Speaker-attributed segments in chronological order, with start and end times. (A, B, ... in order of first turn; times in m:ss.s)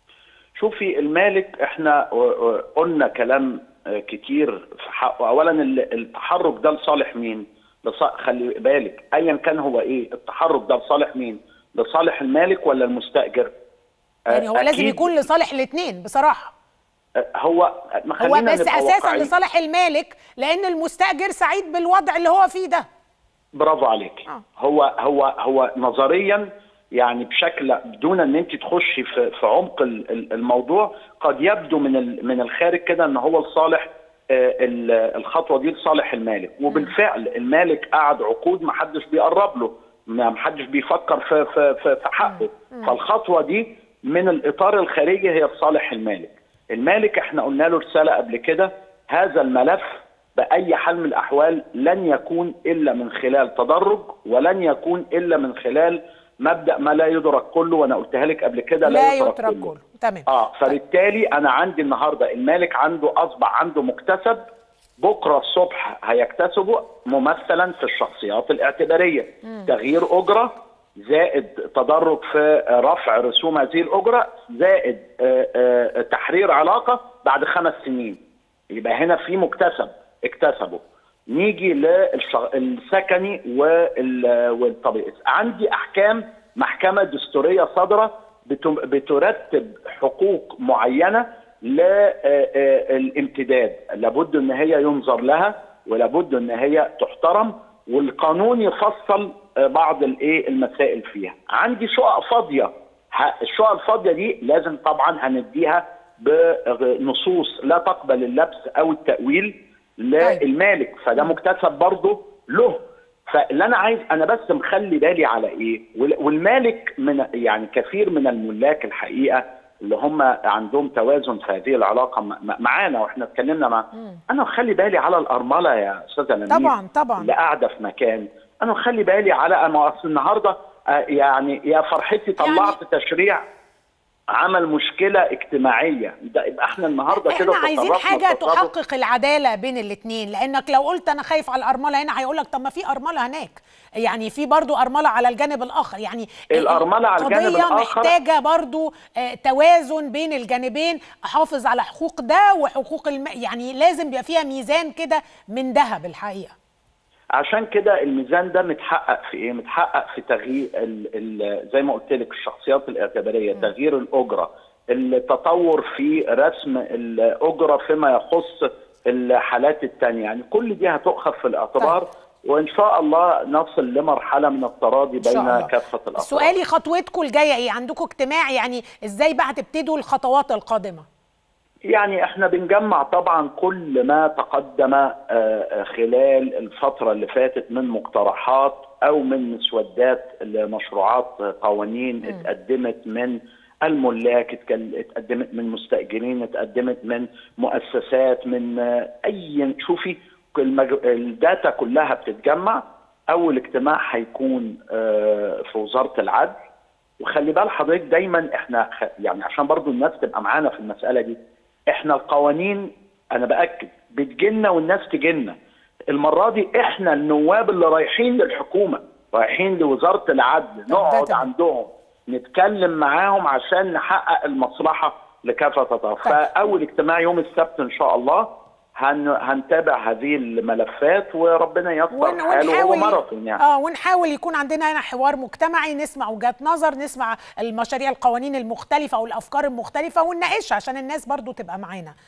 0:00.6-0:13.5 A
0:14.3-0:15.2 A
0:14.3-0:16.5 B
0:17.4-0:19.3 A
0:18.2-0:22.8 B
0:23.6-0:59.7 A
0:42.2-0:42.9 B
0:58.8-1:00.8 B
1:00.3-1:04.4 A
1:05.0-1:18.2 A
1:18.7-2:13.4 A
2:06.5-2:07.3 B
2:12.4-2:12.8 B
2:14.4-2:18.7 A
2:17.1-2:36.5 B
2:26.5-2:28.1 A
2:37.4-2:56.5 A
2:55.2-3:01.0 B
3:01.9-3:26.6 A
3:27.2-3:31.4 A
3:31.9-3:35.6 A
3:36.1-3:53.6 A
3:40.9-3:41.5 B
3:52.1-4:02.1 B